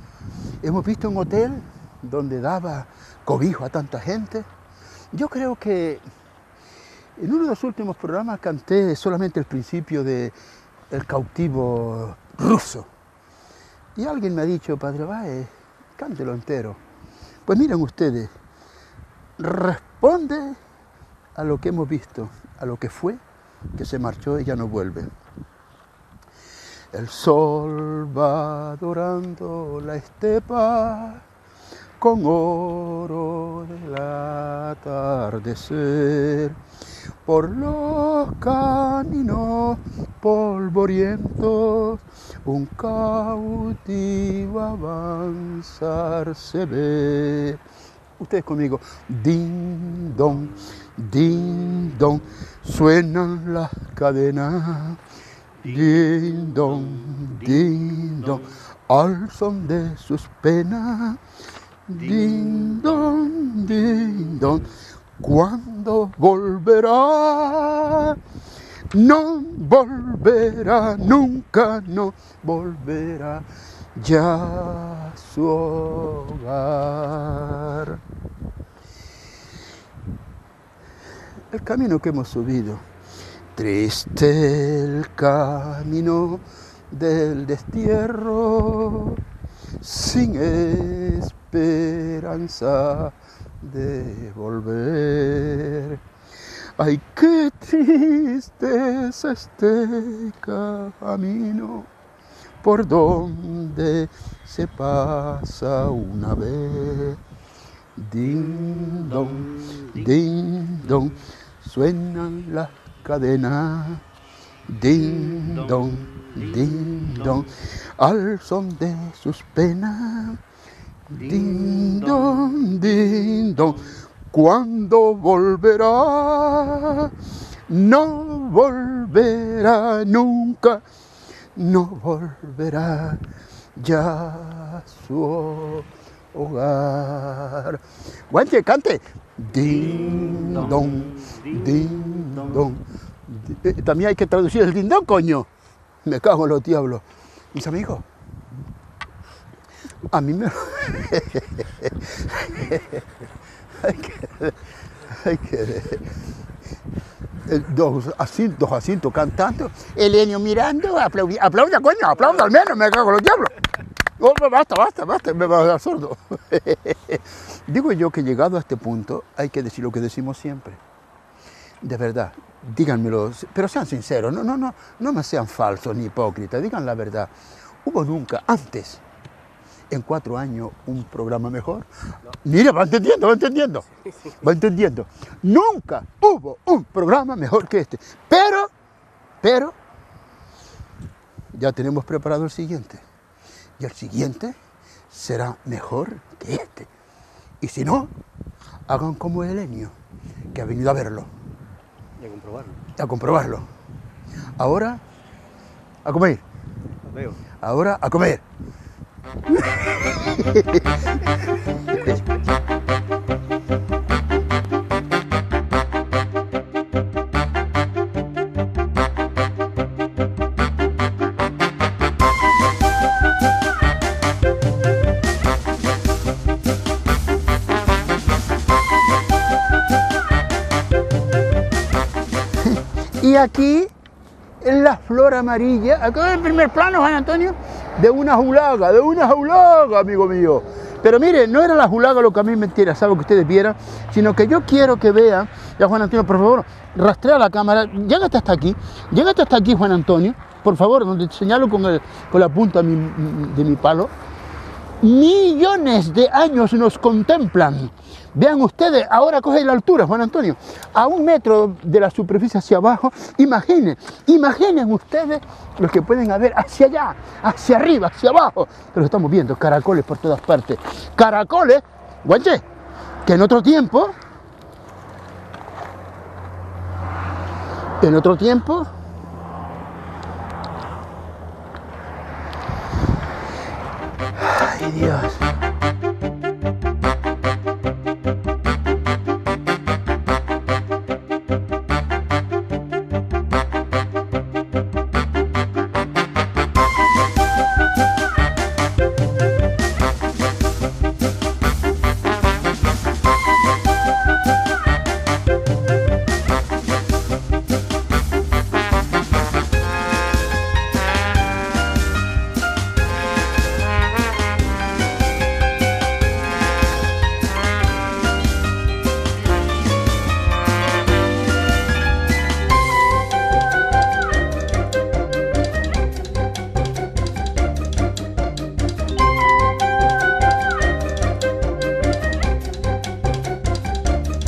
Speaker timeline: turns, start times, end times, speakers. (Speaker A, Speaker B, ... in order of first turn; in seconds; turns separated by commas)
Speaker A: 0.6-4.5, Speaker A: 5.1-6.0, Speaker A: 7.2-10.3, Speaker A: 10.9-12.9, Speaker A: 13.9-16.8, Speaker A: 17.5-18.3, Speaker A: 19.4-20.6, Speaker A: 21.4-23.2, Speaker A: 23.8-25.1, Speaker A: 26.9-31.2, Speaker A: 32.0-36.6, Speaker A: 37.2-47.6, Speaker A: 48.2-55.0, Speaker B: 50.3-50.8, Speaker B: 55.6-58.6, Speaker A: 55.7-61.2, Speaker A: 61.9-64.7, Speaker B: 61.9-64.7, Speaker A: 65.2-68.2, Speaker A: 68.9-78.0, Speaker A: 81.5-82.8, Speaker A: 83.5-89.2, Speaker A: 89.8-96.0, Speaker A: 96.8-101.9, Speaker A: 102.6-107.2, Speaker A: 108.0-114.0, Speaker B: 108.5-110.2, Speaker A: 114.7-120.4, Speaker B: 115.1-117.5, Speaker B: 121.1-123.9, Speaker A: 121.1-127.1, Speaker A: 127.7-130.8, Speaker A: 131.6-133.2, Speaker A: 133.8-145.5, Speaker B: 139.5-142.7, Speaker A: 146.1-148.1, Speaker A: 150.1-153.0, Speaker A: 153.8-156.1, Speaker A: 157.5-163.5, Speaker A: 164.2-170.8, Speaker A: 171.8-177.3, Speaker A: 177.8-179.0, Speaker A: 179.9-181.9, Speaker A: 182.4-183.9, Speaker A: 184.4-188.7, Speaker A: 189.4-189.8, Speaker A: 191.5-193.0, Speaker A: 193.8-194.6, Speaker A: 195.1-196.9, Speaker A: 197.6-198.1, Speaker A: 198.9-199.9, Speaker A: 200.5-201.3, Speaker B: 202.2-202.8, Speaker A: 203.0-203.7, Speaker A: 204.6-205.0, Speaker A: 206.1-206.4, Speaker B: 207.1-207.4, Speaker A: 207.6-208.4, Speaker A: 209.5-211.1, Speaker A: 211.9-212.2, Speaker A: 232.6-233.9, Speaker A: 234.6-254.1, Speaker A: 255.0-272.6, Speaker A: 273.2-274.1, Speaker A: 278.0-278.9, Speaker A: 284.4-285.4